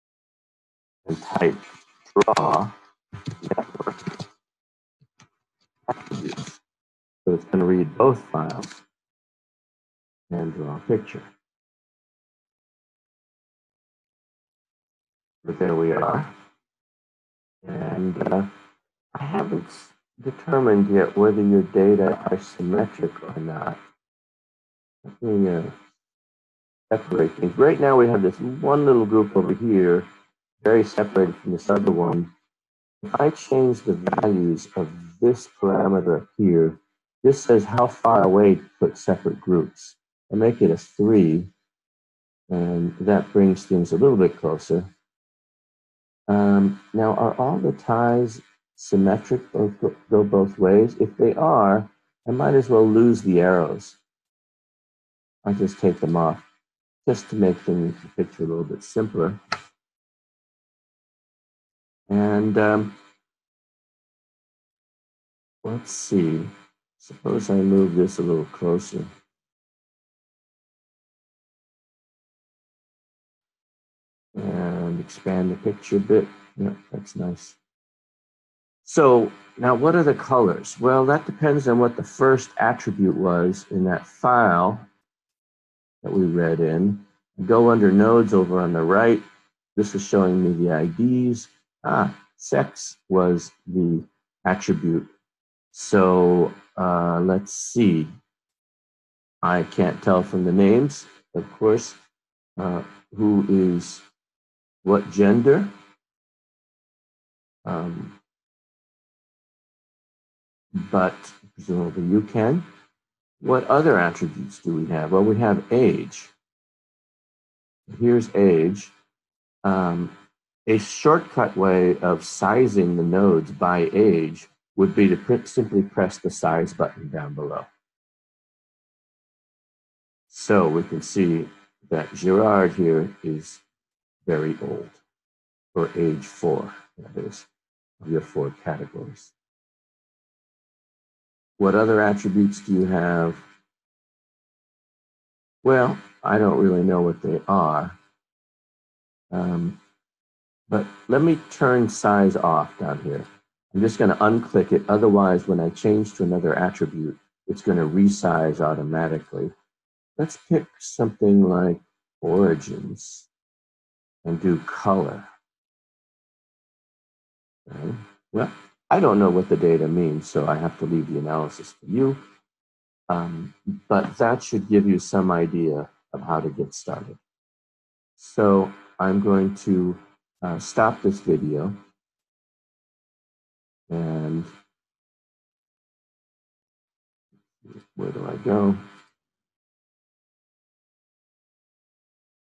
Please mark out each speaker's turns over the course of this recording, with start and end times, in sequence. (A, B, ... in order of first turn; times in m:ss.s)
0:01.0-0:02.7 A
0:03.4-0:04.2 A
0:05.9-0:06.6 A
0:07.2-0:08.8 A
0:10.3-0:11.3 A
0:15.4-0:16.3 A
0:17.6-0:18.5 A
0:19.1-0:23.8 A
0:25.0-0:25.8 A
0:26.9-0:30.1 A
0:30.6-0:32.3 A
0:33.0-0:41.5 A
0:42.5-0:44.9 A
0:46.3-0:54.0 A
0:55.4-0:56.4 A
0:57.0-0:59.4 A
1:02.1-1:03.0 A
1:05.6-1:09.1 A
1:14.3-1:17.6 A
1:18.8-1:24.9 A
1:26.0-1:29.2 A
1:29.7-1:35.1 A
1:35.7-1:38.1 A
1:39.4-1:42.0 A
1:42.6-1:44.0 A
1:44.8-1:45.7 A
1:47.6-1:48.2 A
1:50.7-1:52.6 A
1:53.4-1:56.3 A
1:57.9-1:58.9 A
1:59.6-2:00.1 A
2:00.6-2:07.7 A
2:10.3-2:13.6 A
2:14.2-2:15.0 A
2:15.7-2:17.5 A
2:18.0-2:19.3 A
2:21.6-2:23.4 A
2:25.6-2:28.0 A
2:29.3-2:29.8 A
2:30.7-2:39.5 A
2:40.2-2:43.3 A
2:44.2-2:45.3 A
2:47.6-2:52.2 A
2:53.1-2:57.2 A
2:58.2-3:01.8 A
3:03.9-3:04.5 A
3:07.7-3:08.8 A